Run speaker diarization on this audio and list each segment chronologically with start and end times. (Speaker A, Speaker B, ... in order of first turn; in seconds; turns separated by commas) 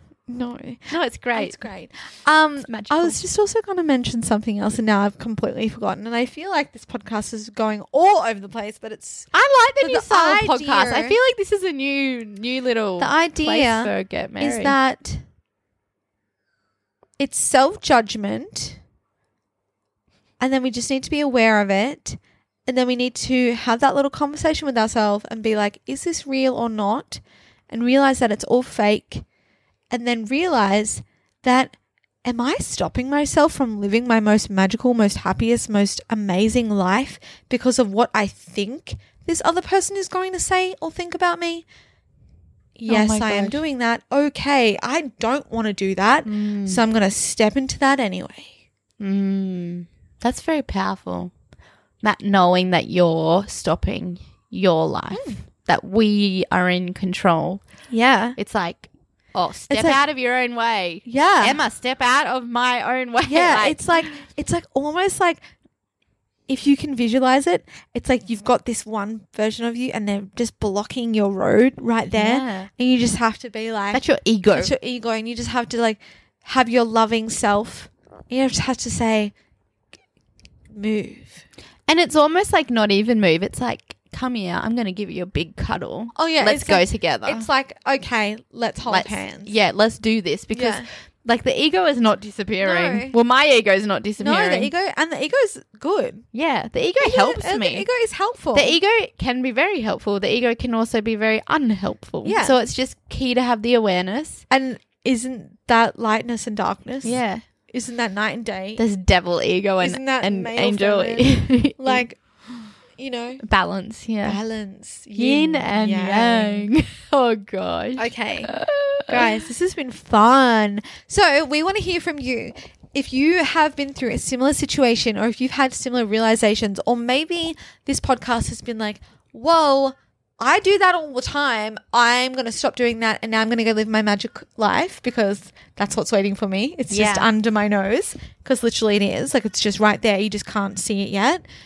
Speaker A: 0.3-11.2, Speaker B: 0.9-1.6, Speaker B: 2.6-3.2, Speaker B: 9.3-14.8, Speaker A: 13.0-15.2, Speaker A: 17.2-18.8, Speaker A: 20.4-29.2, Speaker A: 29.9-41.6, Speaker A: 42.8-48.5, Speaker B: 42.9-43.6, Speaker B: 46.2-46.8, Speaker B: 49.0-51.3, Speaker B: 52.0-57.6, Speaker A: 55.1-55.4, Speaker A: 57.9-58.4, Speaker B: 58.3-64.1, Speaker A: 59.7-60.0, Speaker A: 61.0-61.6, Speaker A: 63.3-65.4, Speaker A: 66.5-79.3, Speaker B: 72.1-72.7, Speaker B: 73.9-74.7, Speaker A: 80.7-81.4, Speaker B: 81.9-87.5, Speaker A: 86.1-89.5, Speaker B: 88.9-94.7, Speaker A: 90.5-90.9, Speaker A: 92.6-93.2, Speaker A: 94.2-96.2, Speaker B: 96.3-97.9, Speaker A: 97.0-98.8, Speaker B: 98.5-104.4, Speaker A: 102.2-102.5, Speaker A: 104.5-108.8, Speaker B: 107.0-107.4, Speaker B: 108.8-112.0, Speaker A: 109.8-112.2, Speaker A: 112.9-113.4, Speaker B: 113.4-114.4, Speaker A: 114.2-116.7, Speaker B: 115.1-119.3, Speaker A: 118.0-118.5, Speaker A: 119.1-141.4, Speaker B: 136.9-137.3